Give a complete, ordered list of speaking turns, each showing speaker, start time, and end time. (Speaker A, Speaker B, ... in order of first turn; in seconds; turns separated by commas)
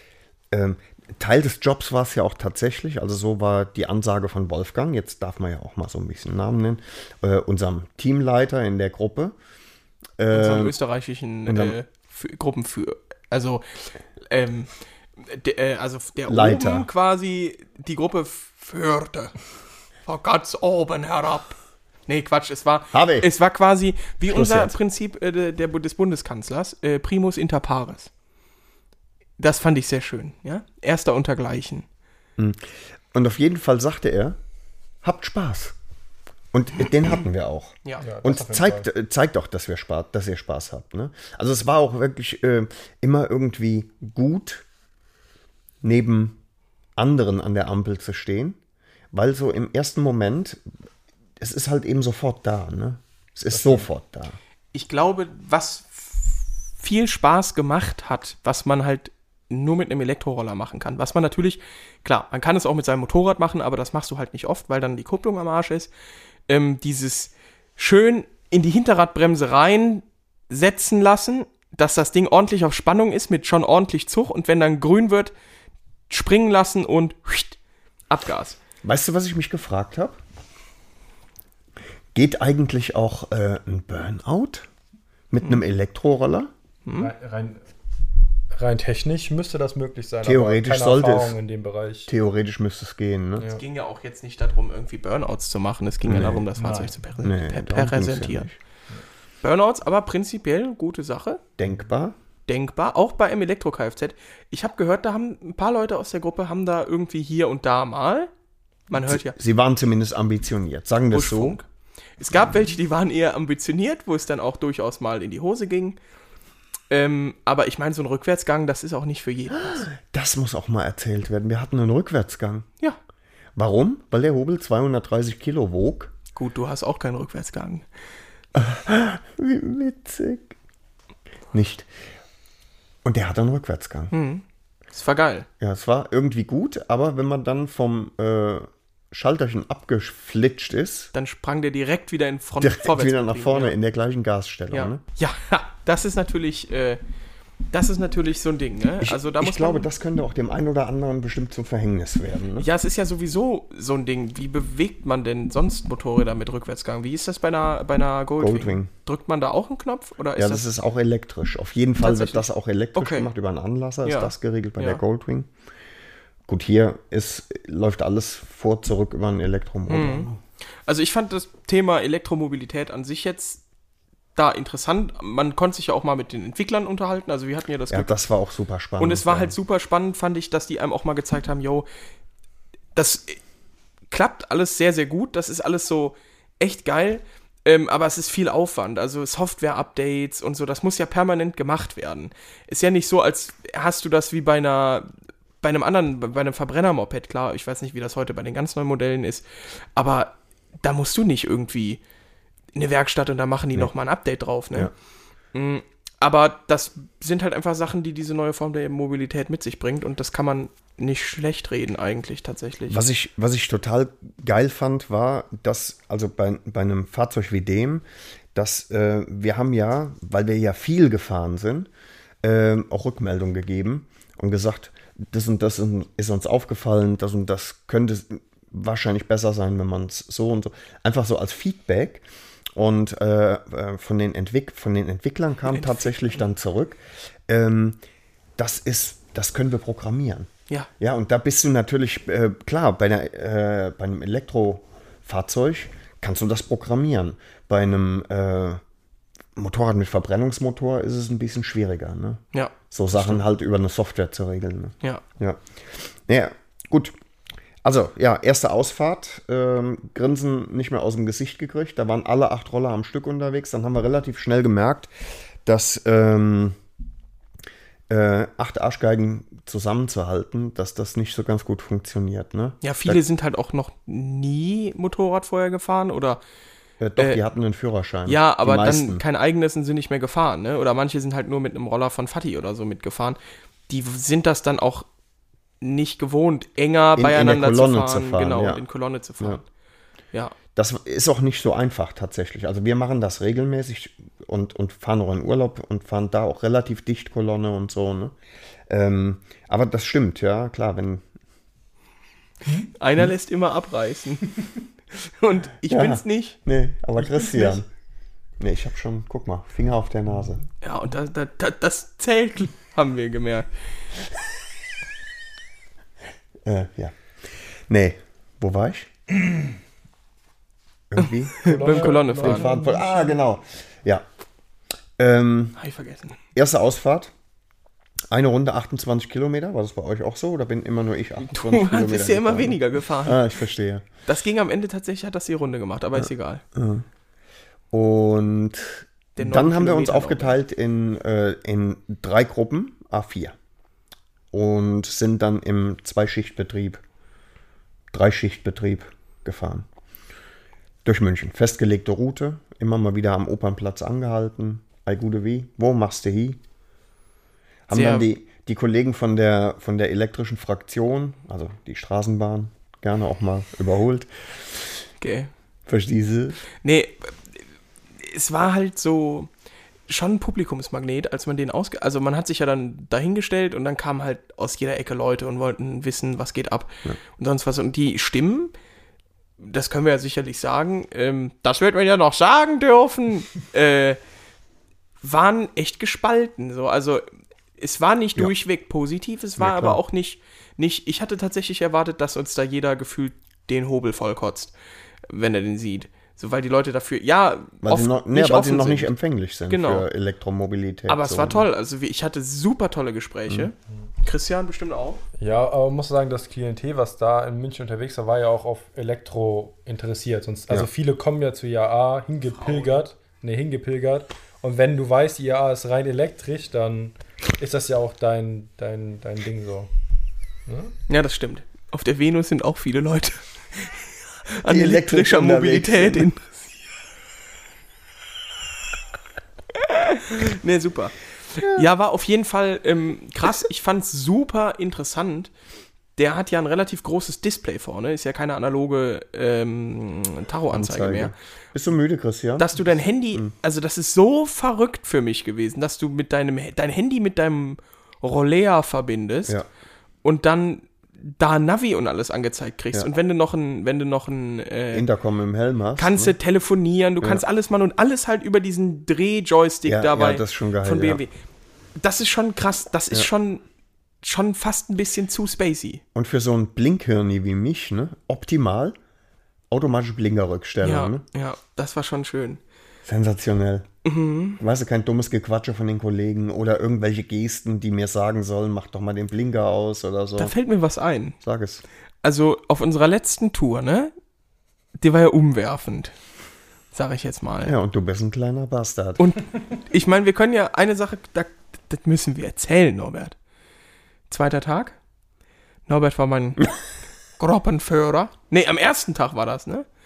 Speaker A: 0.5-9.4, Speaker A: 10.2-10.8, Speaker B: 10.3-19.3, Speaker A: 11.5-11.8, Speaker A: 16.3-16.9, Speaker B: 20.1-28.1, Speaker A: 22.9-23.3, Speaker A: 24.3-24.7, Speaker B: 29.4-31.9, Speaker A: 32.4-34.4, Speaker A: 35.0-35.8, Speaker A: 36.5-44.6, Speaker C: 38.0-38.9, Speaker A: 45.8-46.4, Speaker A: 47.0-48.6, Speaker A: 49.1-50.6, Speaker A: 51.4-54.4, Speaker C: 53.5-53.9, Speaker B: 54.7-65.9, Speaker B: 66.5-75.3, Speaker B: 76.1-77.6, Speaker B: 78.1-78.6, Speaker A: 78.8-80.2, Speaker A: 82.1-84.7, Speaker A: 85.3-86.5, Speaker B: 86.8-87.1, Speaker C: 87.0-87.6, Speaker C: 88.5-92.1, Speaker A: 90.2-91.4, Speaker A: 92.1-93.5, Speaker B: 93.4-98.5, Speaker A: 96.1-96.5, Speaker C: 96.6-97.0, Speaker A: 97.2-98.6, Speaker B: 99.4-101.4, Speaker A: 101.6-102.2, Speaker B: 102.5-108.3, Speaker B: 108.9-109.4, Speaker A: 109.0-111.6, Speaker B: 111.1-111.7, Speaker B: 112.2-116.0, Speaker B: 116.9-119.9, Speaker A: 119.5-122.7, Speaker A: 123.6-126.1, Speaker B: 126.3-127.9, Speaker A: 128.6-130.6, Speaker A: 131.5-131.9, Speaker A: 133.1-134.1, Speaker B: 134.1-135.5, Speaker A: 135.6-141.1, Speaker B: 141.1-143.8, Speaker A: 142.6-145.0, Speaker B: 144.7-147.0, Speaker B: 147.7-149.9, Speaker A: 149.0-152.7, Speaker B: 152.6-160.7, Speaker A: 158.4-158.9, Speaker A: 160.4-165.5, Speaker B: 162.0-163.3, Speaker B: 164.0-165.0, Speaker A: 166.5-170.4, Speaker B: 169.9-170.3, Speaker B: 170.9-173.6, Speaker B: 174.3-178.2, Speaker A: 177.9-179.5, Speaker B: 179.0-181.9, Speaker B: 183.0-183.4, Speaker B: 184.1-195.1, Speaker B: 195.6-202.0, Speaker B: 202.7-204.9, Speaker B: 205.5-213.0, Speaker A: 212.9-221.9, Speaker A: 222.4-238.0, Speaker B: 235.7-236.4, Speaker A: 238.6-248.8, Speaker A: 249.6-255.6, Speaker B: 252.5-253.4, Speaker A: 256.3-257.1, Speaker A: 257.8-265.1, Speaker A: 265.6-266.8, Speaker A: 268.1-273.2, Speaker B: 272.8-276.4, Speaker A: 277.0-279.2, Speaker B: 278.3-283.4, Speaker B: 283.9-285.1, Speaker B: 285.8-289.7, Speaker A: 287.2-288.8, Speaker A: 290.8-298.4, Speaker A: 298.9-301.2, Speaker B: 302.7-306.6, Speaker A: 305.9-307.9, Speaker B: 307.3-307.7, Speaker A: 308.6-310.6, Speaker B: 310.8-313.7, Speaker A: 316.6-319.1, Speaker A: 321.1-324.2, Speaker B: 321.2-322.7, Speaker C: 321.6-323.4, Speaker A: 325.2-325.8, Speaker B: 325.8-326.4, Speaker A: 326.6-327.3, Speaker A: 328.3-334.1, Speaker B: 331.5-333.4, Speaker B: 334.2-336.6, Speaker A: 336.2-337.1, Speaker A: 337.9-343.6, Speaker B: 339.4-340.6, Speaker A: 344.5-347.0, Speaker A: 348.1-349.9, Speaker A: 351.1-356.6, Speaker A: 357.9-364.5, Speaker B: 357.9-358.3, Speaker B: 365.2-365.5, Speaker A: 365.9-366.6, Speaker B: 366.8-367.4, Speaker B: 368.2-369.5, Speaker B: 370.1-378.7, Speaker B: 379.6-384.2, Speaker B: 385.2-387.2, Speaker B: 387.8-394.7, Speaker A: 389.6-390.0, Speaker B: 395.3-399.1, Speaker A: 397.8-401.7, Speaker B: 399.7-400.1, Speaker B: 401.1-405.2, Speaker C: 405.4-419.9, Speaker B: 412.4-413.0, Speaker C: 420.7-420.9, Speaker B: 421.1-426.7, Speaker A: 424.7-426.3, Speaker B: 429.7-435.5, Speaker A: 431.6-431.9, Speaker B: 436.2-441.3, Speaker A: 440.7-442.7, Speaker B: 442.6-449.6, Speaker B: 450.2-455.1, Speaker A: 454.9-456.4, Speaker B: 456.0-461.4, Speaker A: 459.9-461.2, Speaker B: 462.0-463.6, Speaker B: 464.2-466.0, Speaker A: 466.1-469.0, Speaker A: 469.7-471.2, Speaker B: 470.8-472.6, Speaker A: 473.1-473.9, Speaker B: 474.0-474.6, Speaker A: 474.6-480.5, Speaker B: 480.4-481.4, Speaker A: 481.4-481.8, Speaker B: 482.2-484.1, Speaker B: 485.0-486.1, Speaker B: 486.9-487.8, Speaker A: 487.6-489.2, Speaker B: 489.2-493.4, Speaker B: 494.3-495.0, Speaker B: 495.9-496.7, Speaker B: 497.4-499.9